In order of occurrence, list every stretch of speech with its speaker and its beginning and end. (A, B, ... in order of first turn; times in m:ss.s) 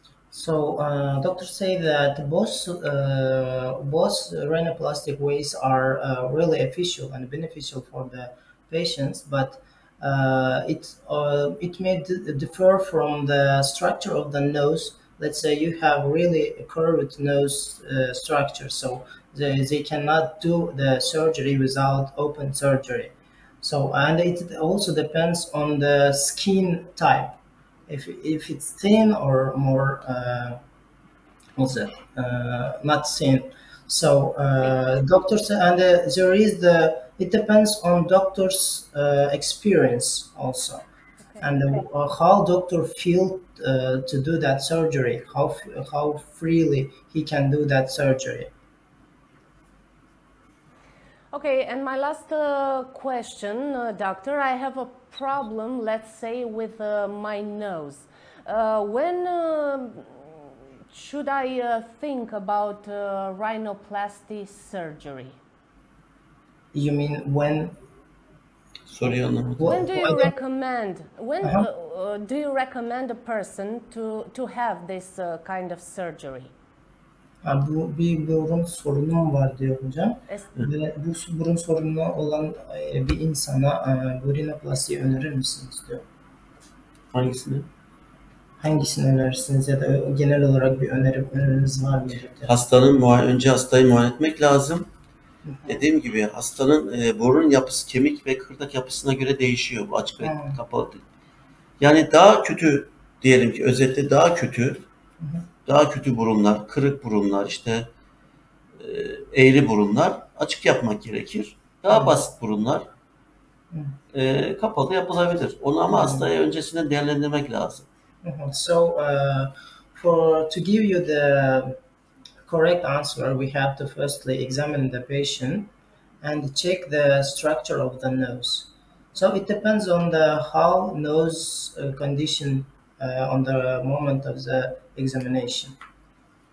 0:00.3-0:30.6 A
0:31.6-0:40.8 A
0:41.4-0:48.5 A
0:51.3-1:05.4 B
1:06.7-1:07.8 A
1:08.9-1:09.7 C
1:09.6-1:10.3 A
1:09.6-1:16.5 B
1:17.4-1:26.0 A
1:27.1-1:27.7 C
1:28.6-1:32.6 A
1:32.5-1:34.9 C
1:35.4-1:35.8 A
1:35.7-1:41.0 C
1:40.2-1:40.6 A
1:41.8-1:44.8 C
1:45.2-1:45.4 A
1:45.6-1:47.9 C
1:48.8-1:52.9 C
1:51.9-1:52.2 A
1:53.7-1:54.0 A
1:54.1-1:57.8 C
1:55.9-1:56.3 A
1:58.2-2:01.8 A
2:02.4-2:15.8 A